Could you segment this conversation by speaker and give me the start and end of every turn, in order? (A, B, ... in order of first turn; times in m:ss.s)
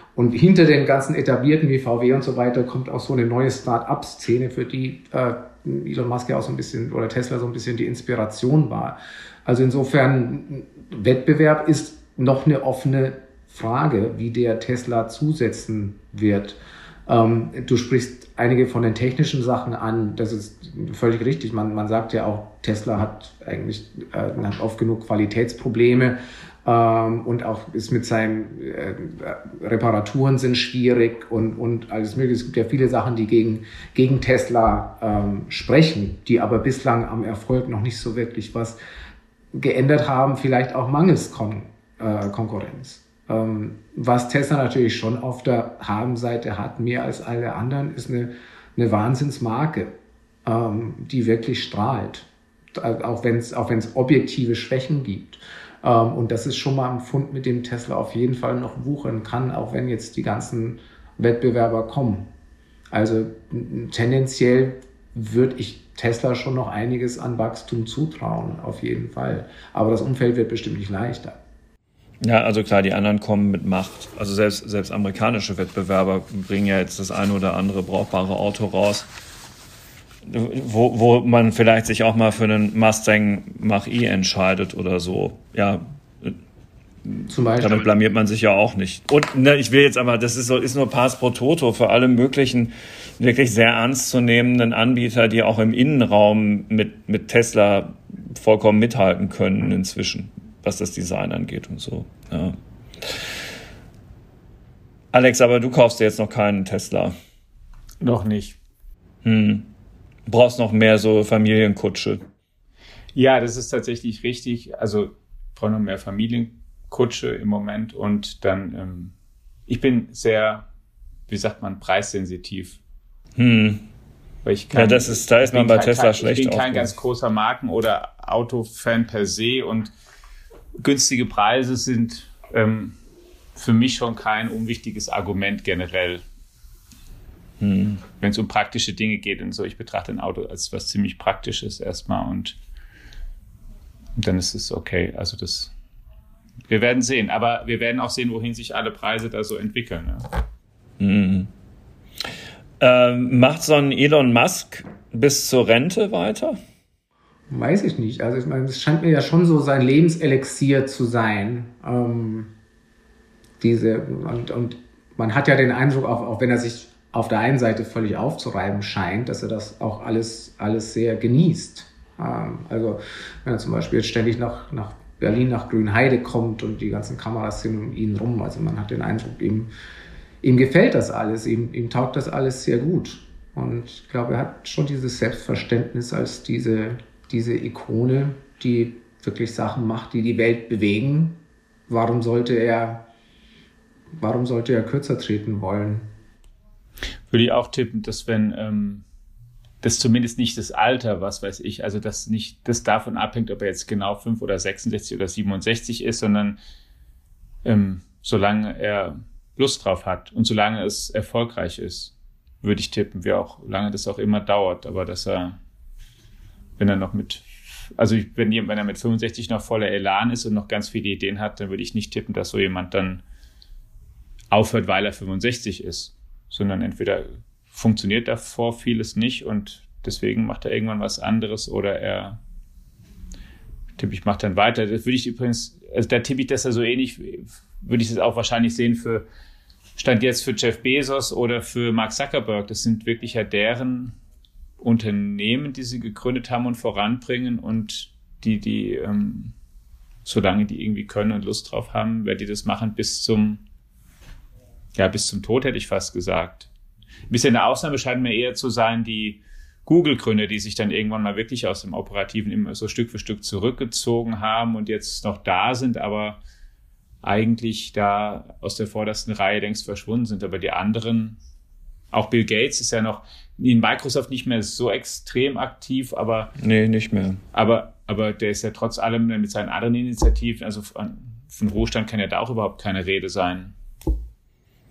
0:00.1-0:38.8 A
0:39.5-0:49.9 A
0:50.4-1:02.3 A
1:02.9-1:11.4 A
1:12.2-1:19.1 B
1:20.3-1:26.4 B
1:27.1-1:43.2 B
1:27.3-1:27.9 A
1:45.1-1:47.1 B
1:48.0-1:48.6 C
1:49.2-1:49.7 B
1:50.3-1:52.2 B
1:53.1-1:59.1 C
1:59.7-2:00.6 C
2:01.3-2:02.8 C
2:03.4-2:03.9 B
2:04.4-2:09.9 C
2:04.7-2:06.9 B
2:10.8-2:13.0 C
2:13.5-2:16.2 C
2:17.6-2:18.0 B
2:18.2-2:22.6 C
2:24.2-2:25.7 C
2:26.7-2:30.2 C
2:31.0-2:31.5 B
2:32.8-2:36.6 B
2:37.5-2:42.5 A
2:43.6-2:59.7 A
3:00.4-3:13.1 A
3:14.2-3:16.1 A
3:17.3-3:19.0 C
3:19.8-3:26.6 C
3:27.6-3:35.6 C
3:36.8-3:37.4 C
3:38.0-3:43.2 C
3:44.5-3:52.4 C
3:54.0-3:59.2 C
4:00.0-4:04.1 C
4:04.8-4:09.5 C
4:10.2-4:13.6 C
4:15.0-4:16.7 C
4:17.3-4:26.4 C
4:27.2-4:31.4 C
4:32.1-4:36.5 C
4:36.6-4:37.4 B
4:37.5-4:43.7 C